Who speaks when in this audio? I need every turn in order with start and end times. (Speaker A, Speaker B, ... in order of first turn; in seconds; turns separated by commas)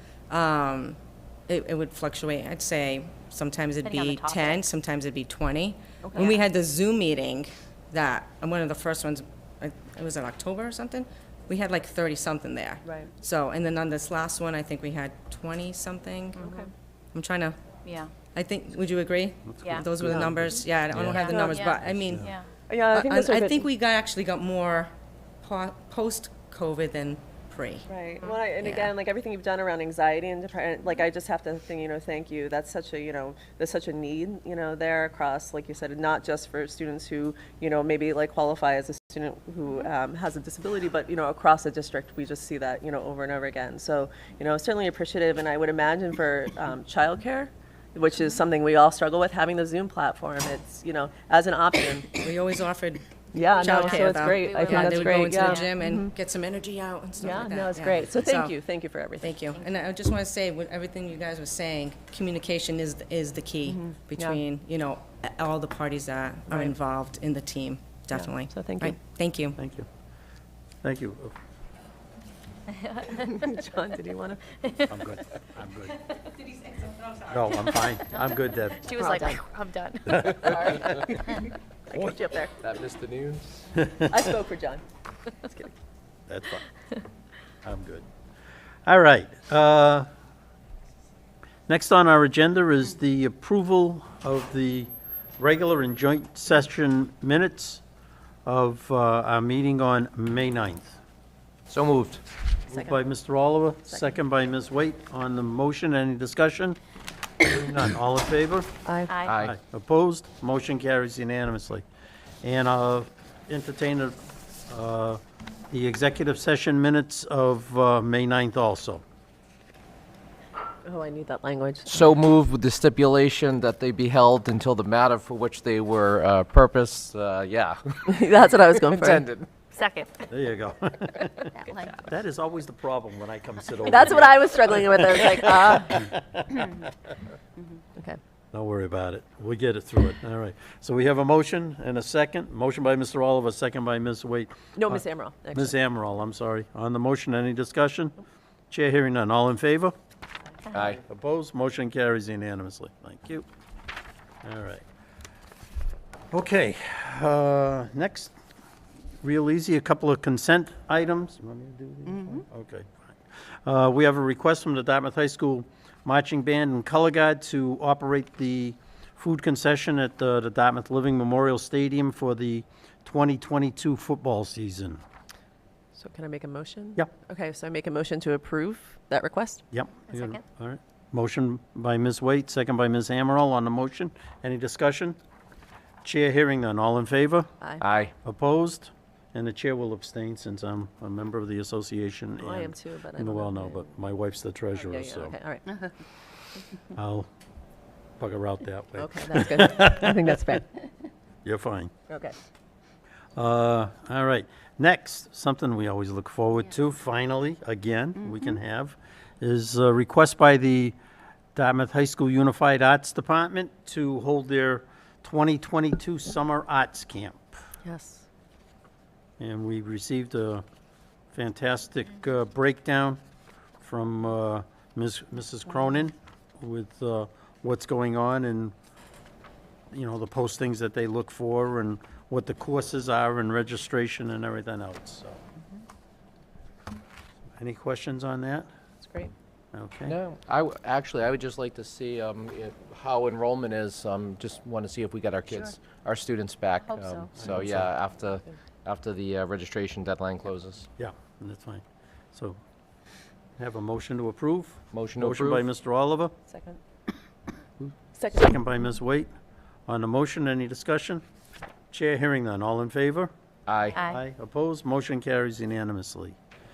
Speaker A: 0.3-16.5, Speaker B: 3.8-4.6, Speaker C: 6.0-6.4, Speaker C: 12.8-13.1, Speaker C: 16.4-16.7, Speaker A: 17.1-17.7, Speaker B: 17.9-18.1, Speaker A: 18.3-27.9, Speaker D: 19.5-20.6, Speaker C: 20.0-20.3, Speaker E: 20.9-21.3, Speaker B: 21.1-22.5, Speaker C: 21.1-21.9, Speaker D: 21.9-22.3, Speaker C: 22.7-23.7, Speaker C: 27.9-52.2, Speaker A: 28.6-28.9, Speaker A: 52.1-58.6, Speaker C: 53.3-56.1, Speaker B: 53.5-55.7, Speaker C: 57.2-59.4, Speaker A: 59.2-69.6, Speaker C: 63.7-64.4, Speaker C: 66.5-66.8, Speaker C: 68.1-69.0, Speaker D: 69.6-69.9, Speaker D: 70.8-71.3, Speaker C: 73.1-74.4, Speaker D: 74.9-76.0, Speaker D: 77.2-79.0, Speaker B: 78.8-80.5, Speaker C: 79.0-79.4, Speaker D: 80.1-80.3, Speaker C: 80.3-81.4, Speaker B: 81.1-81.4, Speaker C: 81.9-82.6, Speaker E: 82.6-83.8, Speaker D: 83.8-84.1, Speaker C: 84.0-84.8, Speaker C: 85.4-85.7, Speaker D: 86.3-86.7, Speaker D: 87.6-88.0, Speaker D: 88.9-90.1, Speaker D: 91.7-97.8, Speaker D: 98.5-101.0, Speaker E: 101.7-102.2, Speaker D: 102.7-106.8, Speaker C: 102.7-103.0, Speaker C: 103.9-104.1, Speaker D: 107.4-108.8, Speaker C: 108.9-109.2, Speaker B: 109.1-109.4, Speaker E: 109.2-109.5, Speaker D: 109.4-111.9, Speaker D: 112.4-119.0, Speaker C: 120.8-122.0, Speaker E: 121.9-129.5, Speaker C: 128.1-129.3, Speaker B: 129.7-130.2, Speaker D: 130.3-136.8, Speaker B: 131.7-132.0, Speaker C: 133.9-136.1, Speaker D: 138.5-148.2, Speaker C: 144.8-145.8, Speaker D: 148.7-149.9, Speaker E: 150.7-151.0, Speaker D: 150.9-153.5, Speaker D: 154.4-154.8, Speaker D: 156.3-158.3, Speaker D: 159.2-175.0, Speaker C: 175.9-179.6, Speaker D: 179.7-185.2, Speaker B: 180.1-180.4, Speaker D: 186.0-187.5, Speaker E: 187.8-188.1, Speaker D: 188.2-195.4, Speaker C: 192.4-193.9, Speaker C: 194.7-195.9, Speaker D: 196.9-197.3, Speaker D: 198.2-200.1, Speaker C: 199.0-200.7, Speaker D: 201.4-201.9, Speaker C: 202.1-202.4, Speaker D: 203.4-211.0, Speaker D: 211.6-217.6, Speaker C: 217.8-218.2, Speaker D: 219.4-220.6, Speaker D: 221.3-223.2, Speaker D: 223.8-228.7, Speaker D: 229.9-235.4, Speaker D: 237.6-238.7, Speaker C: 239.0-239.3, Speaker D: 239.7-240.2, Speaker E: 240.1-250.9, Speaker B: 247.0-247.2, Speaker D: 247.4-247.9, Speaker D: 251.0-251.8, Speaker D: 253.6-256.3, Speaker E: 254.9-255.7, Speaker C: 256.5-256.8, Speaker D: 257.8-259.3, Speaker C: 258.2-258.5, Speaker D: 259.9-261.2, Speaker D: 261.9-263.3, Speaker E: 263.7-264.0, Speaker B: 263.9-264.2, Speaker D: 264.0-266.4